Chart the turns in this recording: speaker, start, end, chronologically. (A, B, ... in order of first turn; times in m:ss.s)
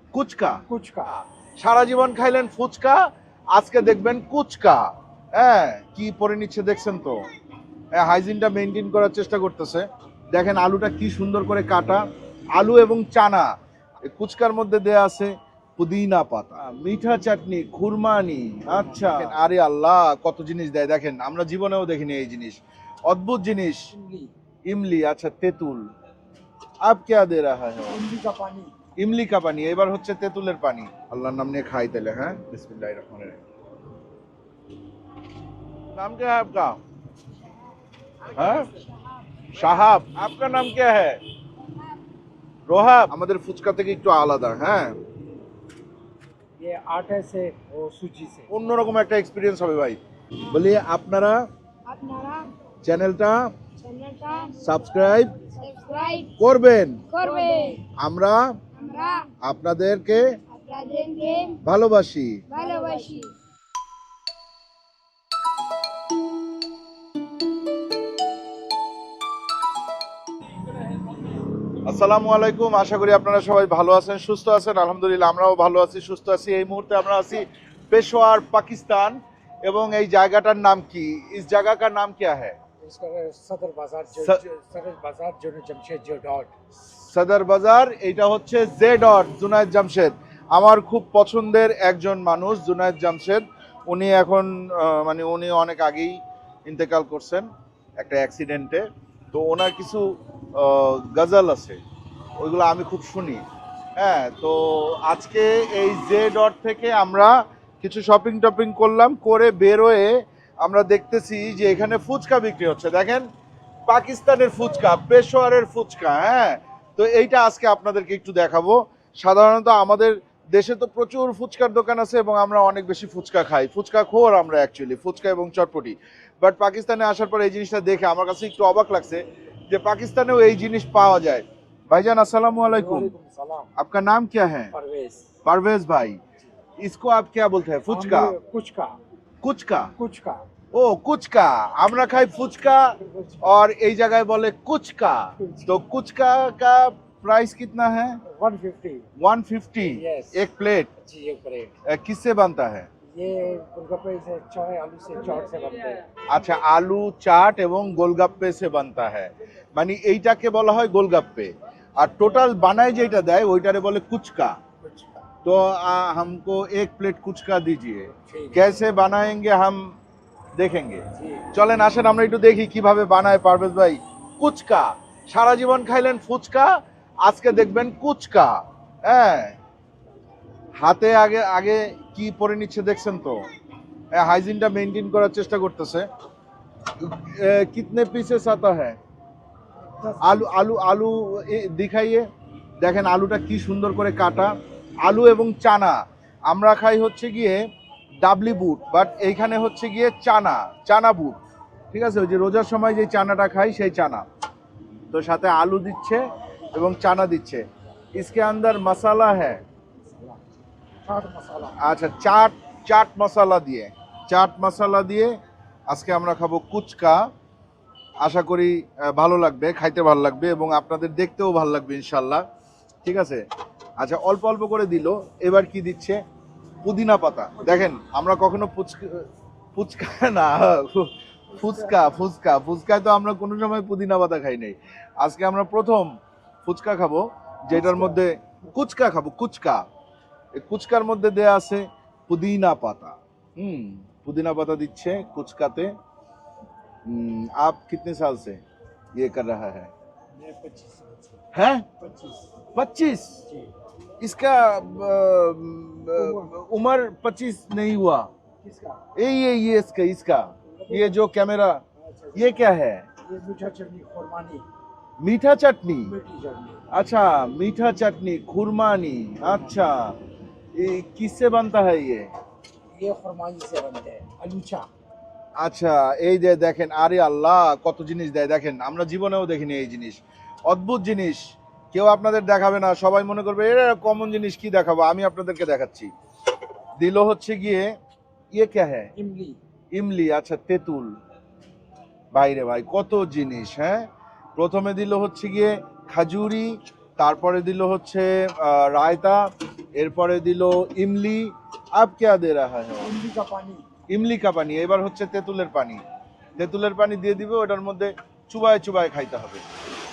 0:00.1-0:07.2 A
0:00.6-0:01.1 B
0:07.9-0:12.0 A
0:12.5-0:13.5 A
0:14.1-0:23.9 A
0:18.7-0:19.4 B
0:23.9-0:24.3 B
0:24.7-0:25.8 A
0:26.8-0:28.0 A
0:27.9-0:28.7 B
0:29.0-0:33.4 A
0:35.9-0:36.8 A
0:38.3-0:38.7 A
0:39.5-0:41.2 A
0:42.7-0:45.0 A
0:46.6-0:48.5 B
0:48.5-0:51.4 A
0:51.8-0:52.5 C
0:52.8-0:53.5 A
0:53.8-0:54.5 C
0:54.6-0:55.3 A
0:55.5-0:56.3 C
0:56.4-0:57.0 A
0:57.1-0:57.8 C
0:57.9-0:58.5 A
0:58.7-0:59.3 C
0:59.4-1:00.4 A
1:00.5-1:01.6 C
1:01.6-1:02.4 A
1:02.5-1:03.3 C
1:11.8-1:22.6 A
1:22.8-1:26.5 B
1:26.8-1:37.5 A
1:38.0-1:41.8 A
1:42.4-1:43.4 A
1:44.0-1:53.3 A
1:53.9-2:13.1 A
2:12.7-2:13.7 B
2:13.8-2:14.7 A
2:14.7-2:15.3 B
2:15.4-2:16.2 A
2:16.8-2:18.3 A
2:17.9-2:19.0 B
2:19.4-2:19.9 A
2:20.0-2:20.4 B
2:20.7-2:28.2 A
2:23.0-2:23.5 B
2:25.4-2:25.8 B
2:28.2-2:29.1 B
2:29.2-2:30.9 A
2:29.8-2:30.4 B
2:31.0-2:31.7 B
2:31.8-2:32.9 A
2:33.1-2:36.1 B
2:36.3-2:44.6 A
2:44.8-2:45.2 B
2:45.4-2:49.9 A
2:48.1-2:48.8 B
2:50.6-2:59.6 A
2:51.1-2:51.5 B
3:00.8-3:03.4 A
3:04.1-3:06.1 A
3:07.0-3:09.0 A
3:10.0-3:10.5 B
3:10.2-3:12.3 A
3:12.8-3:17.6 A
3:18.2-3:21.4 A
3:21.9-3:24.2 A
3:25.1-3:27.6 A
3:28.1-3:29.6 A
3:30.1-3:30.4 B
3:31.0-3:31.8 B
3:31.8-3:35.3 A
3:35.9-3:37.3 A
3:38.2-3:42.4 A
3:43.0-3:43.4 A
3:44.0-3:46.2 A
3:46.8-3:56.1 A
3:47.6-3:47.9 B
3:51.5-3:52.1 B
3:56.6-3:59.8 A
3:57.7-3:58.2 B
4:00.5-4:06.0 A
4:07.0-4:08.6 A
4:09.2-4:09.9 A
4:10.4-4:11.4 B
4:11.5-4:11.9 A
4:12.0-4:12.5 B
4:12.7-4:13.4 A
4:14.2-4:18.3 A
4:16.1-4:16.5 B
4:18.6-4:19.0 B
4:19.2-4:21.8 A
4:20.8-4:21.2 B
4:22.0-4:22.5 B
4:22.3-4:23.1 A
4:23.2-4:24.6 B
4:25.2-4:26.1 A
4:26.0-4:26.9 B
4:26.9-4:30.2 A
4:30.7-4:32.3 A
4:32.9-4:34.9 B
4:35.6-4:46.1 A
4:47.0-4:47.9 A
4:48.5-4:49.1 A
4:49.1-4:49.6 B
4:49.9-4:51.1 A
4:52.3-5:03.1 A
5:03.0-5:03.8 B
5:04.1-5:06.0 A
5:06.6-5:09.6 A